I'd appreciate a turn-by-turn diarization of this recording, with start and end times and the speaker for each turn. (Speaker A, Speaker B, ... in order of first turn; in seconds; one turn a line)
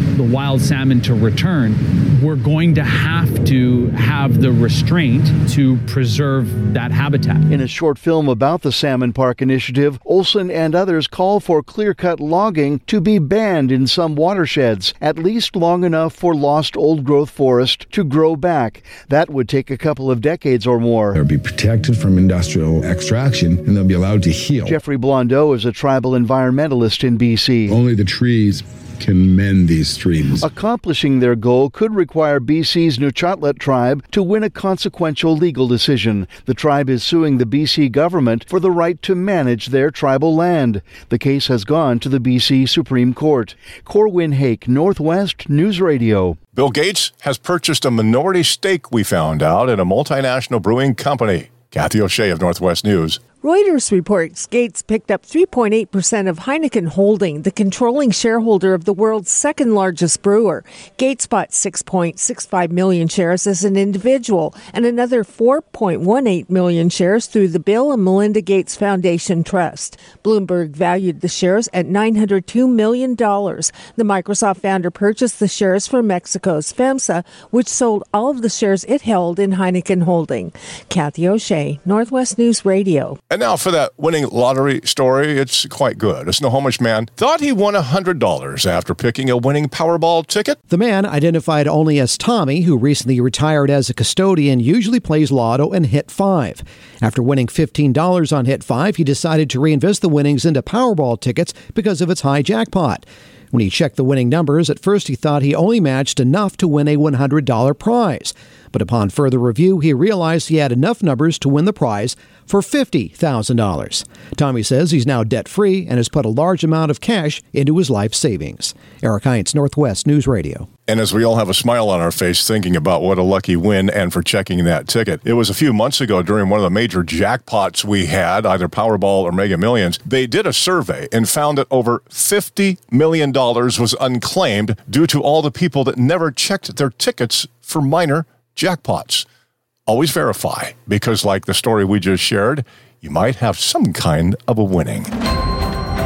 Speaker A: 0.2-7.4
Speaker B: 7.5-21.1
Speaker C: 21.1-24.8
Speaker B: 24.6-27.8
Speaker C: 27.7-30.5
Speaker B: 30.4-46.4
Speaker D: 46.5-53.2
Speaker E: 53.4-83.2
Speaker D: 83.3-90.6
Speaker F: 90.7-120.7
Speaker D: 120.9-139.2
Speaker D: 139.9-145.1